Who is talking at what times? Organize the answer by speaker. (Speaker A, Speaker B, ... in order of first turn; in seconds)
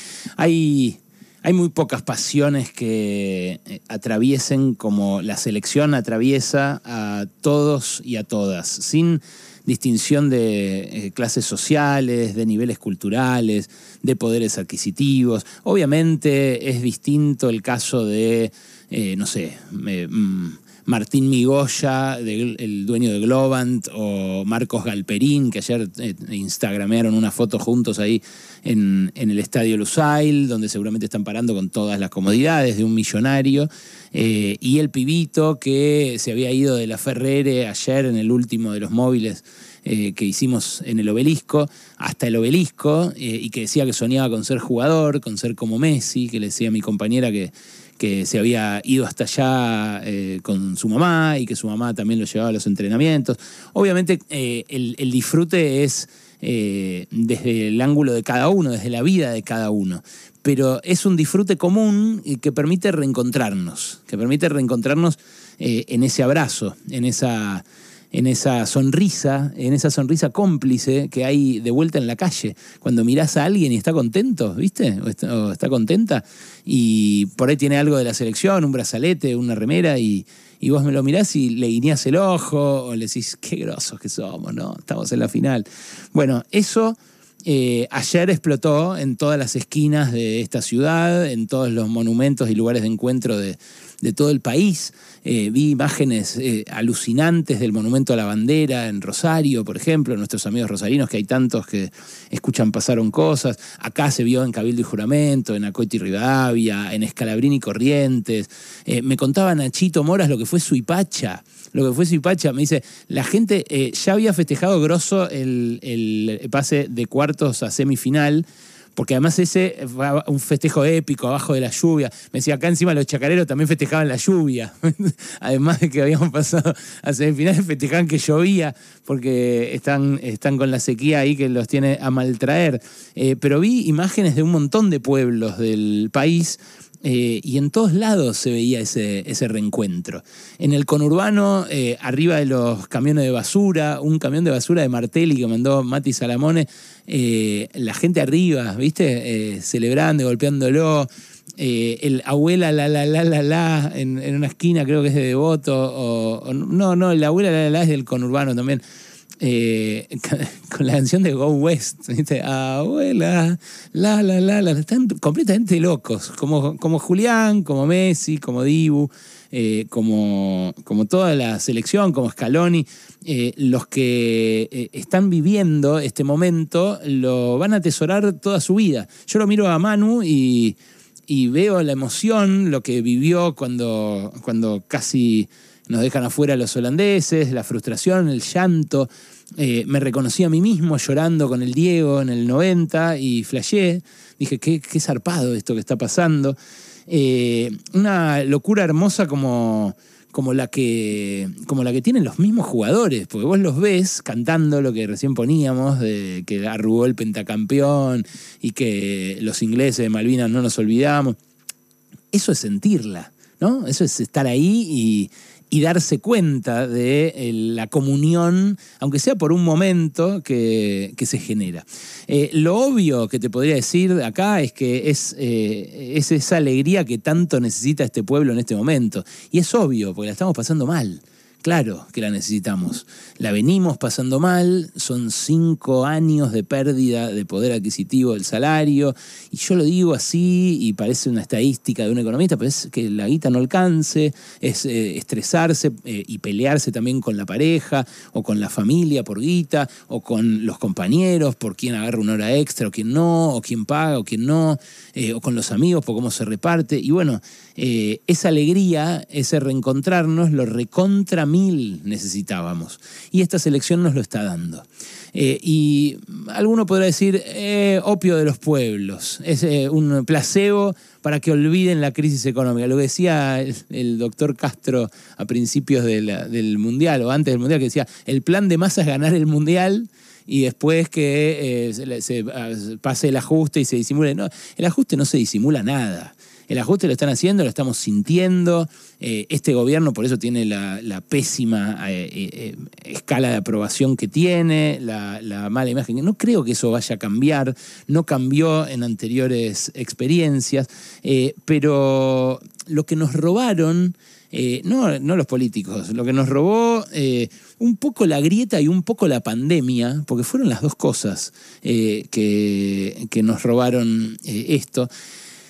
Speaker A: 0.4-118.4, 119.0-158.8, 159.4-196.6, 197.1-211.3, 212.3-315.1